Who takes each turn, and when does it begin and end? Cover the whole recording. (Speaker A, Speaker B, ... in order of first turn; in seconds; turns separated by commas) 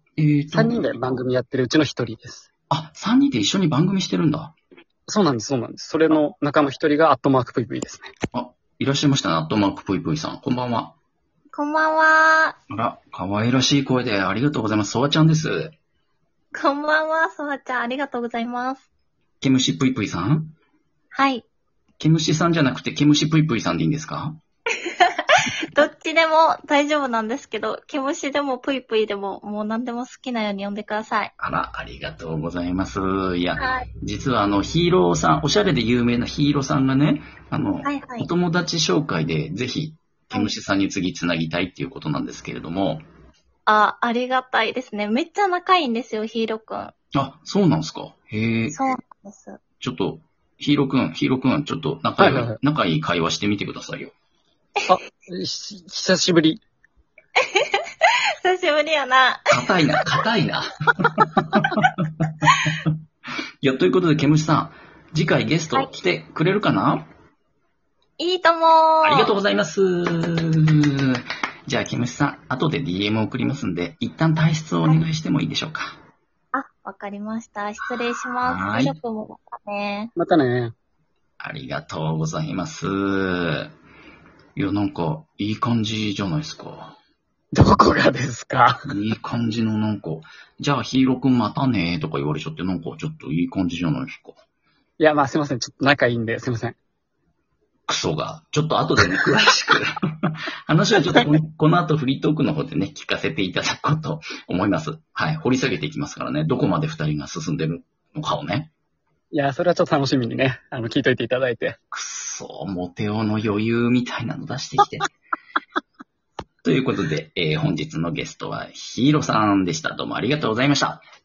Speaker A: 0.2-1.2, Speaker B: 0.5-2.5, Speaker A: 2.7-4.6, Speaker B: 5.1-8.1, Speaker A: 8.3-10.9, Speaker C: 11.5-12.6, Speaker A: 12.7-15.8, Speaker C: 16.5-18.8, Speaker A: 19.4-20.5, Speaker C: 21.1-21.4, Speaker A: 22.0-24.4, Speaker C: 24.9-31.3, Speaker A: 31.4-43.0, Speaker C: 33.6-33.9, Speaker C: 37.8-38.3, Speaker C: 43.7-46.9, Speaker A: 47.1-48.8, Speaker C: 48.7-49.6, Speaker A: 49.8-54.1, Speaker B: 52.2-52.6, Speaker B: 54.9-56.6, Speaker C: 57.5-60.1, Speaker A: 59.5-62.9, Speaker A: 63.6-67.1, Speaker C: 68.2-69.3, Speaker A: 69.0-76.0, Speaker C: 76.5-80.1, Speaker A: 78.4-79.0, Speaker B: 80.2-80.7, Speaker A: 81.4-83.7, Speaker A: 84.6-87.0, Speaker B: 87.5-88.8, Speaker A: 88.8-94.4, Speaker B: 95.0-96.8, Speaker A: 97.9-108.7, Speaker B: 109.3-111.8, Speaker A: 111.9-115.1, Speaker A: 116.6-121.0